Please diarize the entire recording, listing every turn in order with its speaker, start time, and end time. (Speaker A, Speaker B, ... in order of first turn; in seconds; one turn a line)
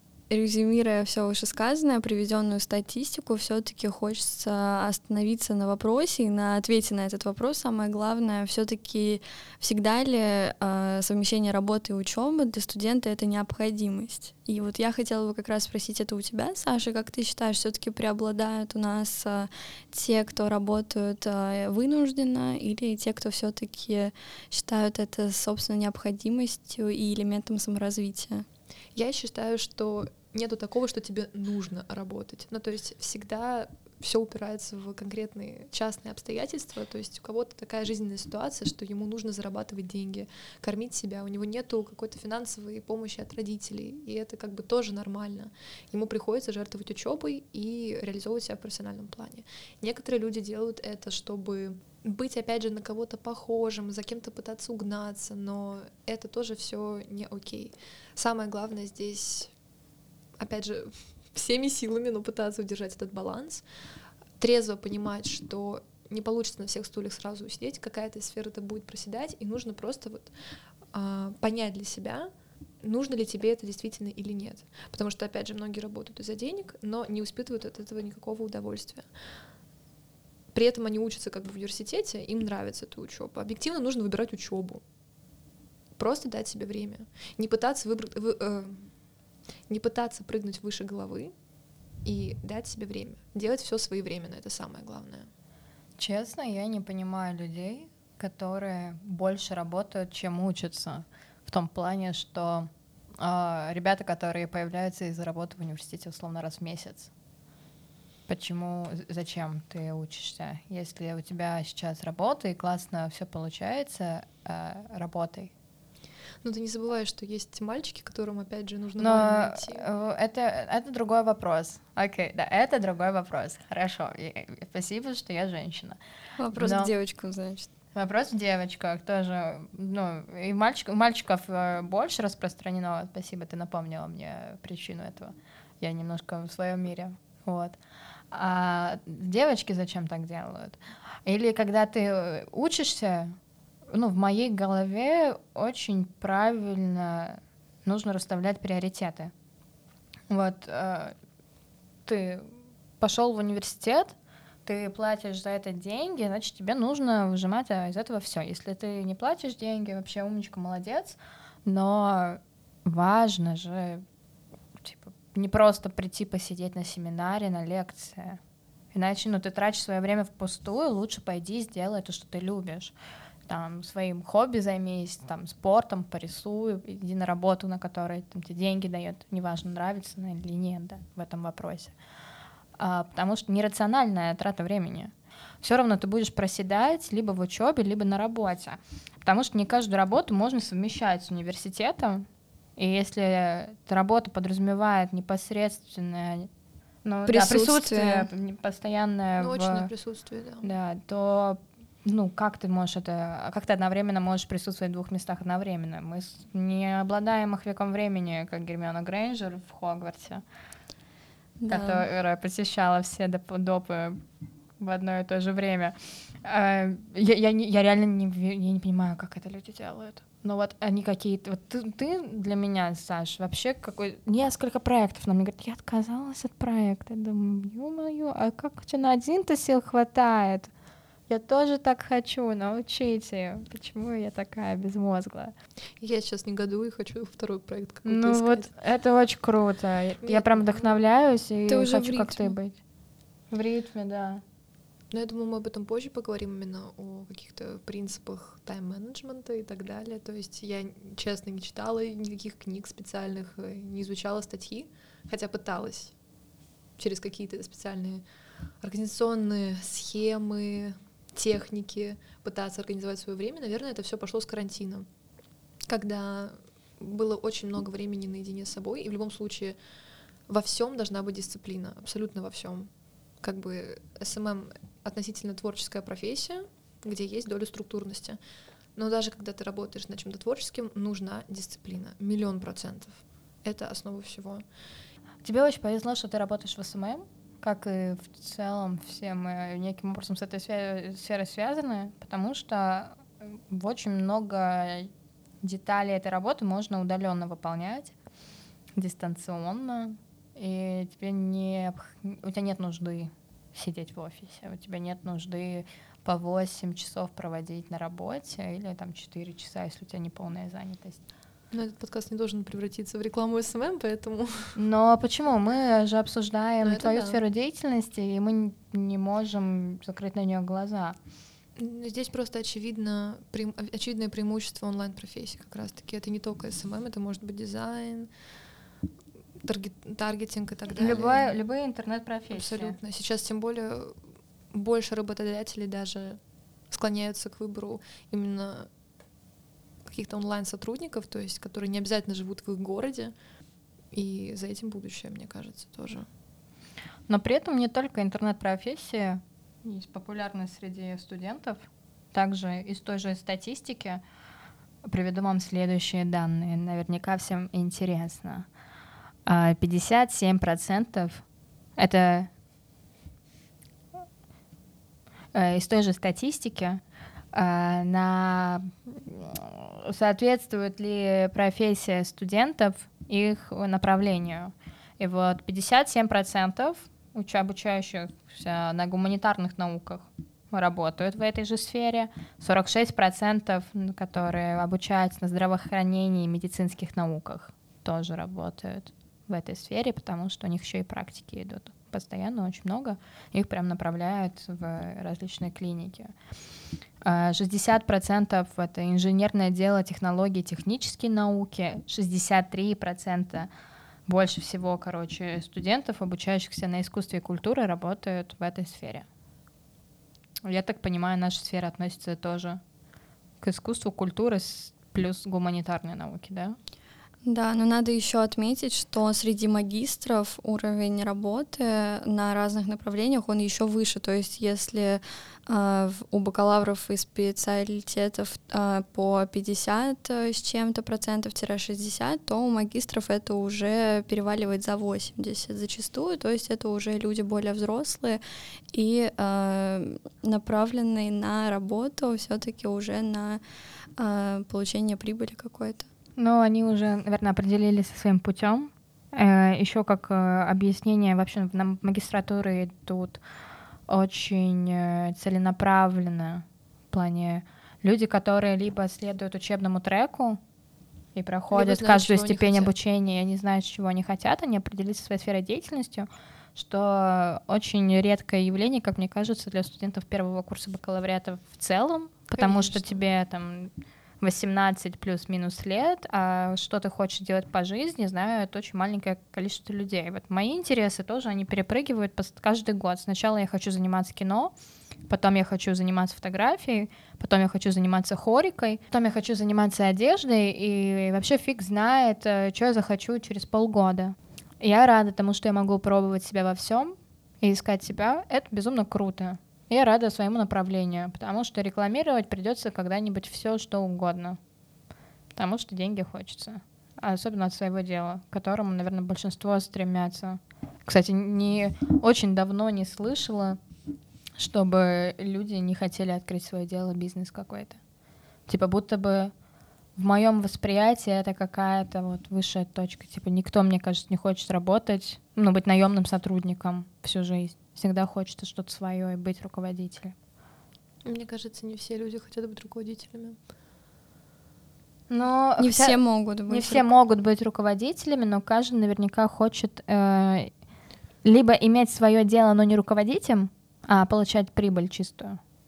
Speaker A: 0.3-28.4
Speaker B: 28.9-59.5
Speaker B: 60.4-63.6
Speaker B: 64.4-70.3
Speaker B: 70.9-72.3
Speaker B: 72.8-79.1
Speaker B: 80.5-84.8
Speaker B: 86.0-88.9
Speaker B: 89.7-91.3
Speaker B: 92.0-95.3
Speaker C: 96.0-107.1
Speaker C: 108.3-115.5
Speaker B: 116.4-119.9
Speaker C: 119.0-126.0
Speaker A: 126.4-127.7
Speaker C: 126.5-126.9
Speaker C: 127.9-137.8
Speaker C: 138.3-143.3
Speaker C: 143.9-149.3
Speaker C: 150.3-151.1
Speaker C: 152.1-164.0
Speaker C: 164.8-168.4
Speaker C: 168.9-172.9
Speaker C: 173.5-181.9
Speaker C: 182.8-192.2
Speaker C: 192.8-196.5
Speaker C: 197.0-199.9
Speaker A: 197.2-198.3
Speaker B: 199.4-200.7
Speaker C: 200.6-210.4
Speaker A: 211.6-212.1
Speaker C: 211.7-214.2
Speaker C: 214.8-230.7
Speaker C: 231.3-235.5
Speaker B: 236.0-238.7
Speaker C: 238.1-242.8
Speaker B: 240.2-241.0
Speaker A: 241.7-242.5
Speaker C: 243.5-244.4
Speaker B: 245.1-256.1
Speaker B: 257.0-258.2
Speaker B: 258.8-265.1
Speaker B: 265.9-269.8
Speaker B: 270.5-272.9
Speaker B: 273.4-278.4
Speaker B: 278.9-284.6
Speaker C: 285.4-295.1
Speaker C: 295.6-298.1
Speaker C: 299.0-311.2
Speaker B: 311.7-314.8
Speaker C: 314.8-321.2
Speaker B: 316.8-317.4
Speaker B: 321.8-328.3
Speaker B: 329.6-331.5
Speaker C: 330.9-333.0
Speaker B: 332.5-334.1
Speaker B: 334.7-336.4
Speaker B: 336.9-338.9
Speaker B: 340.0-343.3
Speaker B: 344.1-346.2
Speaker C: 347.3-354.2
Speaker C: 355.1-358.7
Speaker C: 359.4-361.4
Speaker C: 362.0-362.5
Speaker C: 365.5-367.0
Speaker C: 367.5-396.3
Speaker C: 397.2-403.7
Speaker C: 404.3-409.2
Speaker C: 410.6-412.8
Speaker C: 413.6-416.7
Speaker A: 417.4-438.4
Speaker A: 438.9-443.6
Speaker A: 444.2-446.1
Speaker C: 446.4-453.4
Speaker C: 454.1-460.6
Speaker C: 461.3-484.7
Speaker B: 461.7-462.9
Speaker B: 472.5-473.2
Speaker C: 485.3-504.6
Speaker C: 505.6-513.8
Speaker C: 514.6-518.0
Speaker C: 518.7-519.5
Speaker C: 520.2-530.3
Speaker B: 531.2-533.6
Speaker C: 535.3-540.7
Speaker A: 535.8-537.1
Speaker C: 541.4-545.6